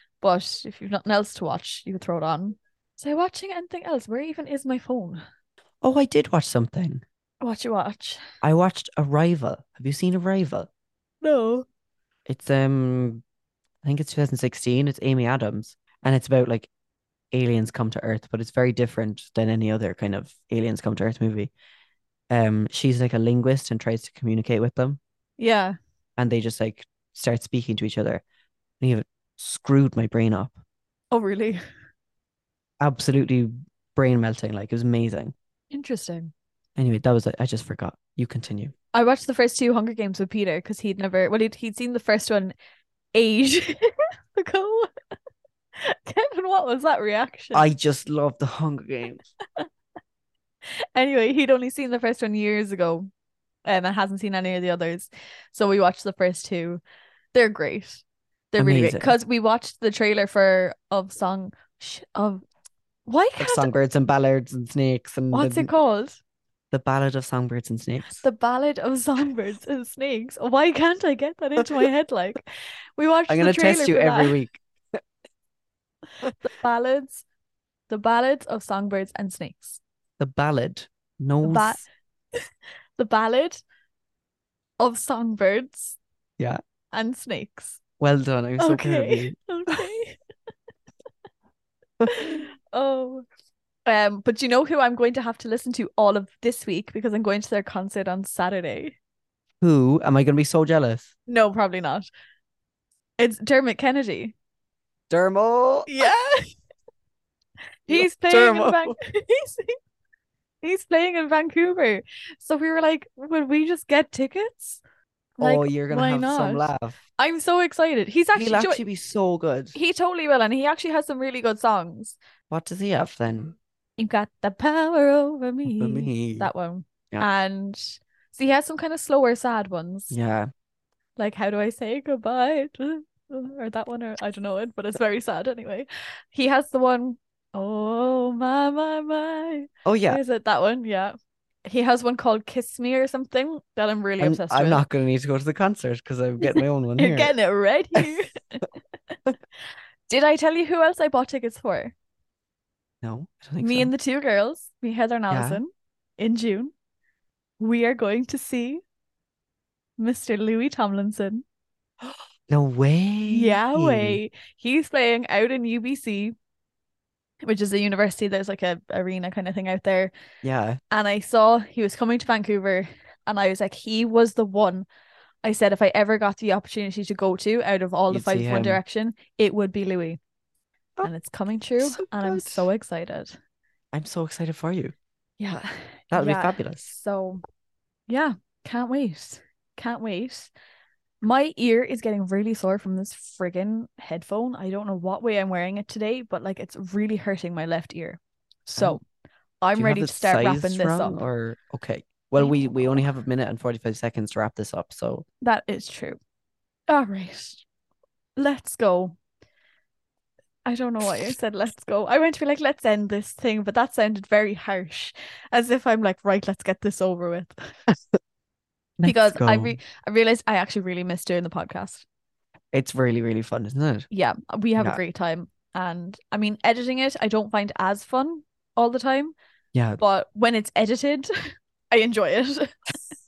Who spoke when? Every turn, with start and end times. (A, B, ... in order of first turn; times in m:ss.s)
0:00.2-0:05.2 A
0:05.8-0:07.0 B
0:07.4-0:08.2 A
0:08.4-0:10.7 B
0:11.2-0:11.6 A
0:12.3-0:13.2 B
0:13.8-0:16.7 B
0:17.3-0:21.5 B
0:22.3-0:25.0 B
0:25.4-0:25.7 A
0:26.2-0:28.2 B
0:28.8-0:30.6 B
0:31.1-0:31.6 A
0:32.8-0:35.3 B
0:35.7-0:36.3 A
0:36.8-0:38.7 B
0:38.9-0:42.5 A
0:43.1-0:44.9 A
0:45.8-0:47.7 A
0:47.5-0:49.2 B
0:50.9-0:53.1 A
0:53.6-0:56.8 A
0:57.3-1:02.4 A
0:58.6-0:59.1 B
1:03.1-1:03.7 A
1:03.4-1:05.7 B
1:05.3-1:06.2 A
1:06.7-1:08.2 B
1:08.2-1:14.3 A
1:11.6-1:11.9 B
1:13.3-1:15.0 B
1:16.4-1:17.2 A
1:17.9-1:19.8 A
1:20.2-1:21.8 B
1:21.4-1:23.6 A
1:24.8-1:26.0 A
1:26.9-1:27.8 A
1:28.0-1:29.3 B
1:28.6-1:30.2 A
1:32.0-1:33.2 A
1:33.8-1:38.9 A
1:39.6-1:41.1 B
1:41.3-1:42.1 A
1:43.2-1:44.3 A
1:45.1-1:45.9 B
1:45.9-1:46.6 A
1:47.9-1:49.8 A
1:47.9-1:48.9 B
1:50.6-1:54.8 A
1:55.4-1:58.8 A
1:55.4-1:57.0 B
1:58.3-1:59.8 B
1:59.7-2:02.2 A
2:02.5-2:03.6 B
2:04.0-2:10.1 A
2:05.6-2:06.5 B
2:10.1-2:10.5 B
2:11.2-2:24.8 A
2:19.8-2:20.2 B
2:24.2-2:27.3 B
2:26.4-2:28.6 A
2:30.1-2:31.9 A
2:33.0-2:33.9 B
2:33.6-2:36.7 A
2:35.3-2:35.6 B
2:37.6-2:38.8 A
2:40.0-2:41.4 A
2:42.0-2:44.2 B
2:43.3-2:46.3 A
2:47.4-2:50.1 A
2:50.4-2:50.8 B
2:50.9-2:54.8 A
2:55.4-3:00.2 A
2:58.1-2:58.8 B
3:01.0-3:03.4 A
3:01.8-3:02.7 B
3:03.9-3:04.9 B
3:05.4-3:07.4 A
3:06.1-3:06.9 B
3:08.1-3:10.5 A
3:11.2-3:19.0 A
3:18.7-3:19.0 B
3:19.6-3:21.2 A
3:19.7-3:25.2 B
3:22.4-3:22.7 A
3:25.4-3:26.2 A
3:26.9-3:27.6 A
3:28.4-3:29.2 A
3:30.6-3:37.7 A
3:39.0-3:39.8 B
3:39.0-3:42.0 A
3:42.7-3:44.0 B
3:44.1-3:49.3 A
3:49.7-3:50.0 B
3:50.0-3:52.7 A